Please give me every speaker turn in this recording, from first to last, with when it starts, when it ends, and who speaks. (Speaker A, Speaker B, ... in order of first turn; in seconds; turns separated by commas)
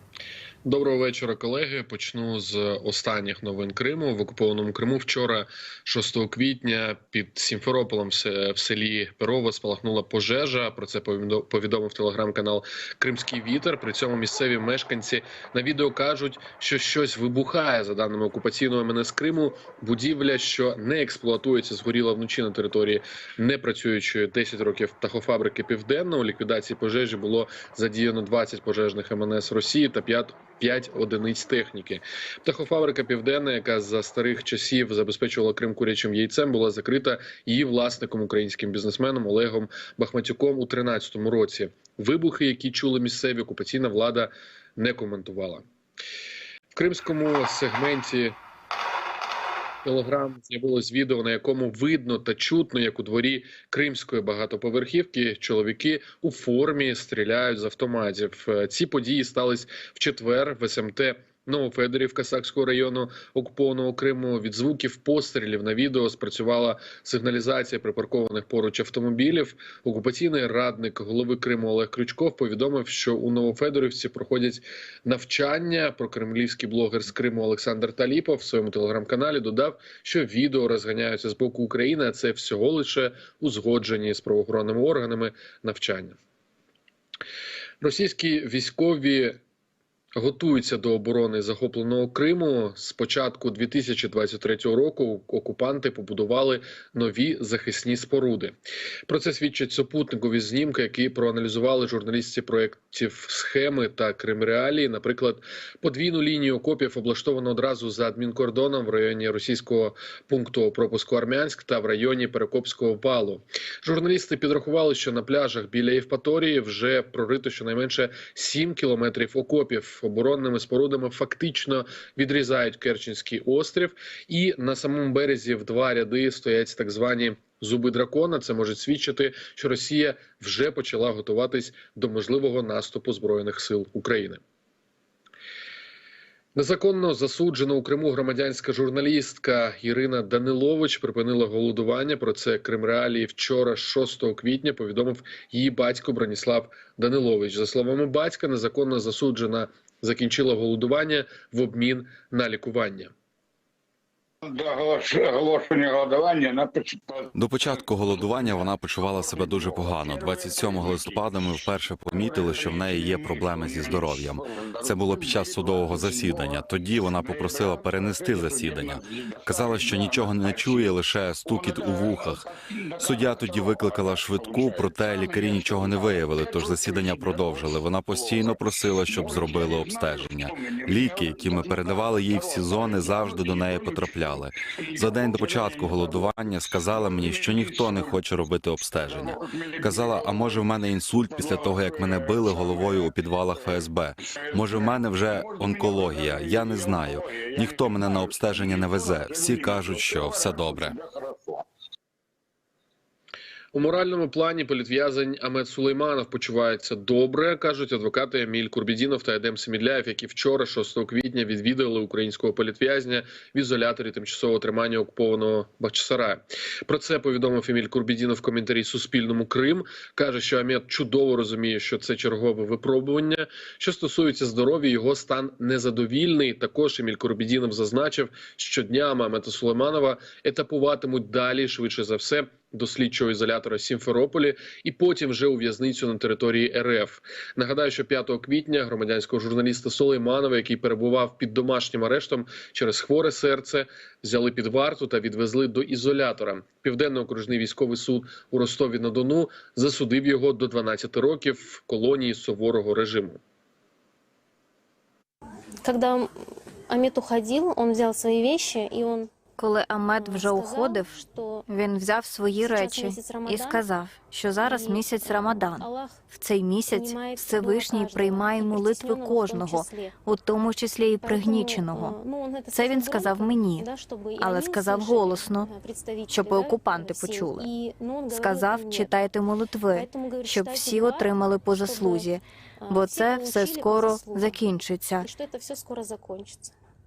Speaker A: 0.7-45.6, Speaker A: 46.7-48.4, Speaker A: 49.9-86.2, Speaker A: 87.8-89.4, Speaker A: 90.2-98.5, Speaker A: 99.1-134.4, Speaker A: 136.6-153.1, Speaker B: 154.4-188.2, Speaker C: 157.3-172.4, Speaker C: 173.0-201.0, Speaker B: 189.0-190.7, Speaker B: 191.3-201.7, Speaker A: 203.7-253.4, Speaker D: 255.8-256.3, Speaker D: 256.9-259.3, Speaker E: 259.6-261.1, Speaker D: 260.1-261.7, Speaker E: 261.7-272.2, Speaker D: 262.6-263.9, Speaker D: 264.6-266.2, Speaker D: 266.9-270.1, Speaker D: 271.2-279.2, Speaker E: 272.7-273.9, Speaker E: 274.4-275.7, Speaker E: 276.3-277.7, Speaker E: 278.3-285.3, Speaker D: 279.9-282.3, Speaker D: 282.8-284.6, Speaker D: 285.2-286.7